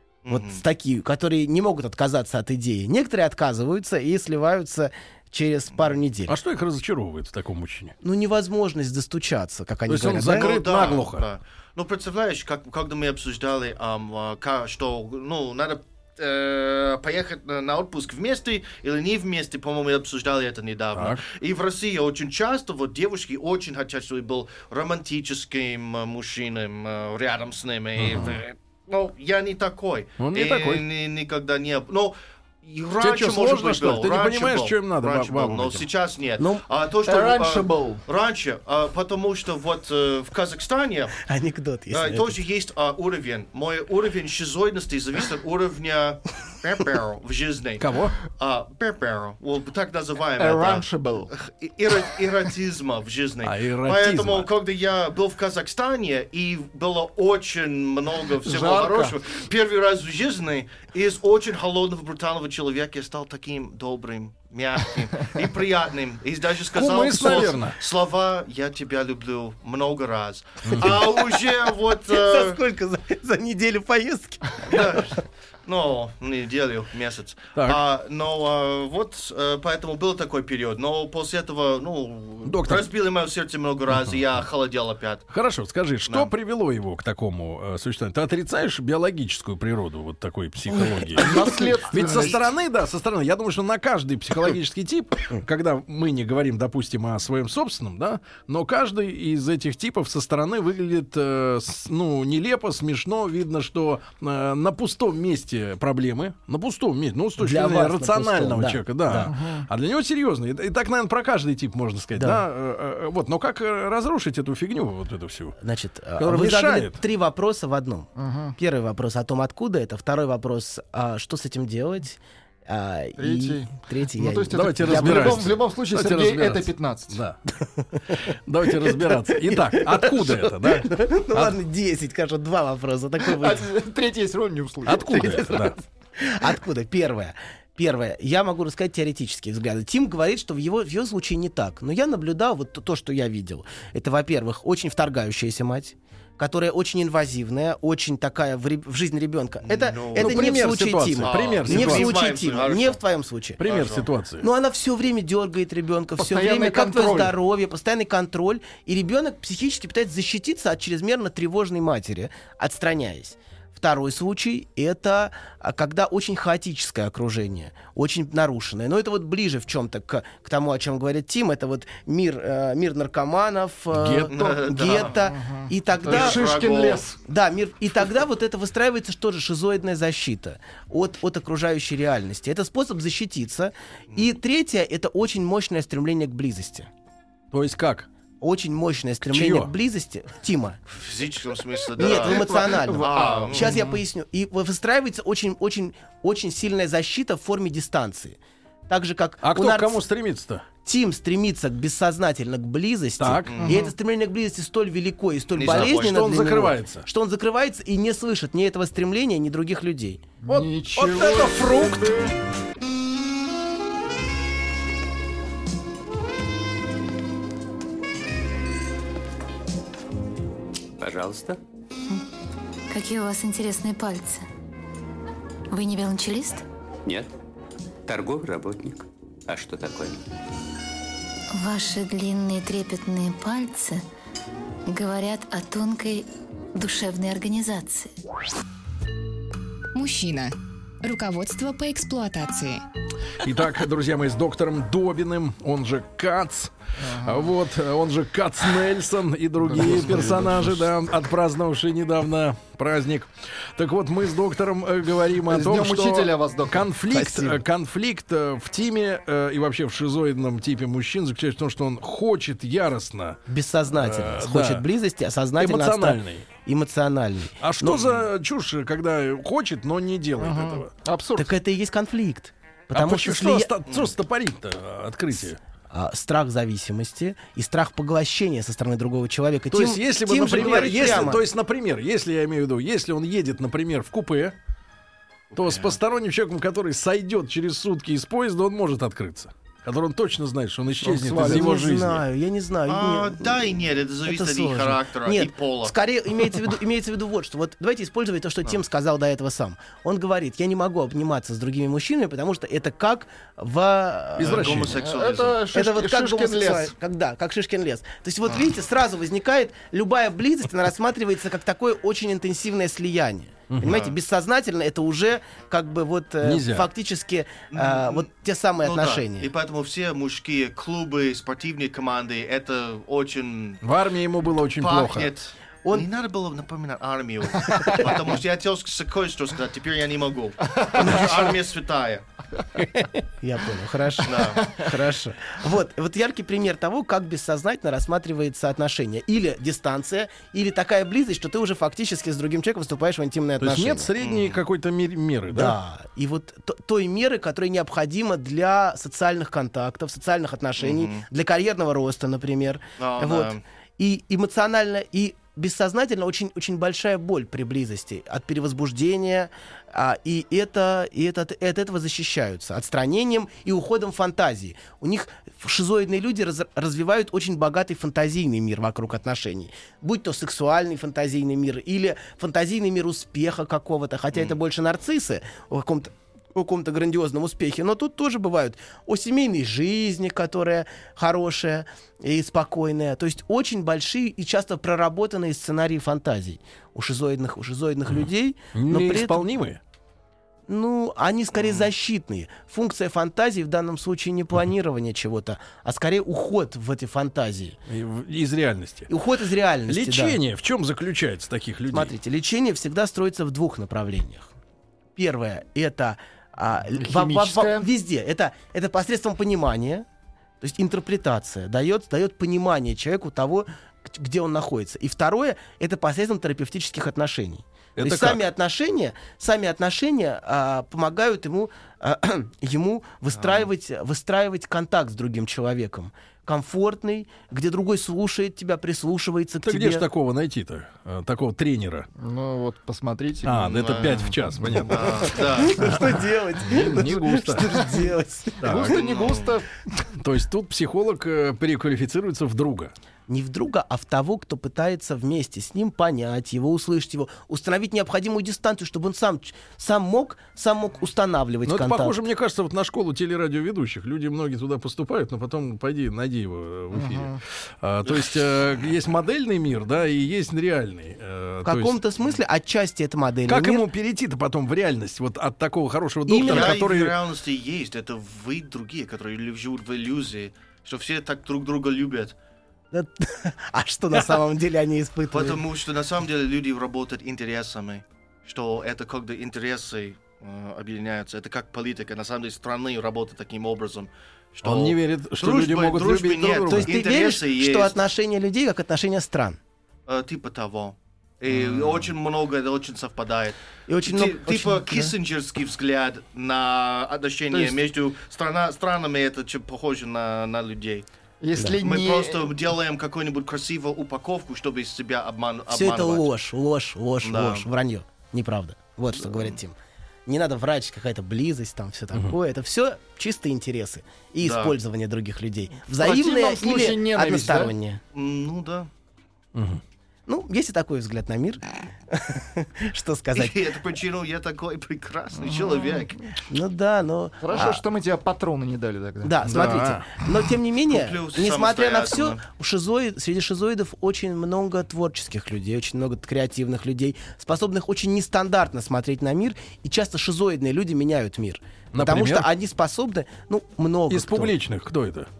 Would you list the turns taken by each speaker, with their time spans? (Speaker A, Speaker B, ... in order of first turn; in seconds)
Speaker A: 0.2-0.6, 10.1-41.2, 41.9-72.6, 74.7-85.3, 92.0-92.4, 149.7-150.6, 151.2-153.0, 153.6-154.1, 174.3-175.2, 176.1-177.1, 190.9-193.7, 203.5-203.8, 205.6-206.2, 273.9-274.1, 285.5-285.9, 292.9-295.9, 304.4-305.6, 313.8-314.1, 317.7-318.3, 318.8-323.8, 324.8-332.2, 334.2-334.6, 344.2-344.6, 350.8-351.2, 353.0-353.6, 391.5-391.9, 423.3-423.7, 433.6-434.2, 434.9-435.8, 438.8-439.6, 466.5-472.3, 475.3-487.9, 490.1-501.1, 501.8-506.3, 507.2-507.7, 514.4-514.7, 518.1-518.9, 523.3-526.2, 530.9-532.4
Speaker B: 0.3-6.3, 8.0-10.5, 41.3-42.4, 70.8-71.4, 72.0-75.0, 107.4-109.3, 112.1-112.4, 115.6-125.5, 127.8-128.3, 128.8-133.7, 135.3-153.6, 154.4-176.7, 177.2-186.9, 188.4-190.8, 192.0-200.0, 200.8-210.2, 257.1-257.6, 263.5-268.2, 271.4-273.7, 275.9-281.4, 291.3-293.7, 294.2-304.9, 305.7-319.5, 331.0-331.3, 333.4-344.1, 345.5-389.4, 390.7-397.8, 399.1-400.4, 401.9-404.5, 405.1-410.0, 410.6-430.1, 435.4-438.9, 443.3-452.2, 461.6-463.9, 466.3-466.7, 472.9-475.6, 486.7-489.6, 493.9-495.1, 501.6-501.8, 505.7-509.7, 510.2-518.0, 520.3-523.7, 526.5-527.8, 529.2-544.5
Speaker C: 6.3-7.9, 9.9-11.2, 20.9-21.2, 28.0-28.4, 30.2-30.8, 33.0-35.9, 47.8-48.2, 53.4-54.5, 66.7-67.8, 70.6-71.0, 77.5-77.8, 82.4-82.9, 85.3-115.6, 116.2-117.0, 124.5-127.4, 128.1-131.6, 134.8-135.8, 150.1-152.1, 153.6-154.5, 173.9-174.3, 187.5-188.1, 189.2-189.7, 199.4-200.7, 203.2-203.7, 205.7-207.1, 210.5-212.2, 243.4-263.4, 263.9-264.8, 265.6-266.5, 267.6-270.9, 272.9-275.6, 279.7-284.5, 285.5-292.2, 304.4-305.0, 313.7-314.0, 316.4-316.9, 323.8-325.3, 343.6-345.8, 388.7-389.8, 397.9-399.1, 399.9-402.1, 418.0-418.4, 429.6-432.1, 433.4-436.0, 436.6-437.8, 438.6-439.0, 440.2-442.9, 451.6-462.0, 463.5-467.1, 484.6-487.0, 519.5-519.8, 529.4-530.1, 541.9-542.5, 544.1-545.3
Speaker D: 37.0-38.0, 50.4-51.3, 58.4-59.1, 91.1-92.4, 109.3-109.7, 118.2-118.5, 123.2-127.2, 133.2-135.5, 156.2-157.3, 175.1-177.2, 192.0-194.0, 203.6-203.9, 210.4-212.1, 247.0-247.5, 249.6-250.9, 255.5-256.9, 270.4-271.5, 291.0-291.7, 305.0-306.9, 334.3-334.9, 407.0-407.9, 432.2-434.9, 438.6-440.0, 456.9-457.4, 497.5-497.8, 501.4-502.5, 516.0-517.7, 525.4-526.1, 527.4-529.6
Speaker E: 221.0-221.6, 227.0-227.3, 228.1-230.2
Speaker F: 222.9-224.4, 225.7-226.6, 231.5-234.0, 234.8-238.1
Speaker G: 239.9-242.8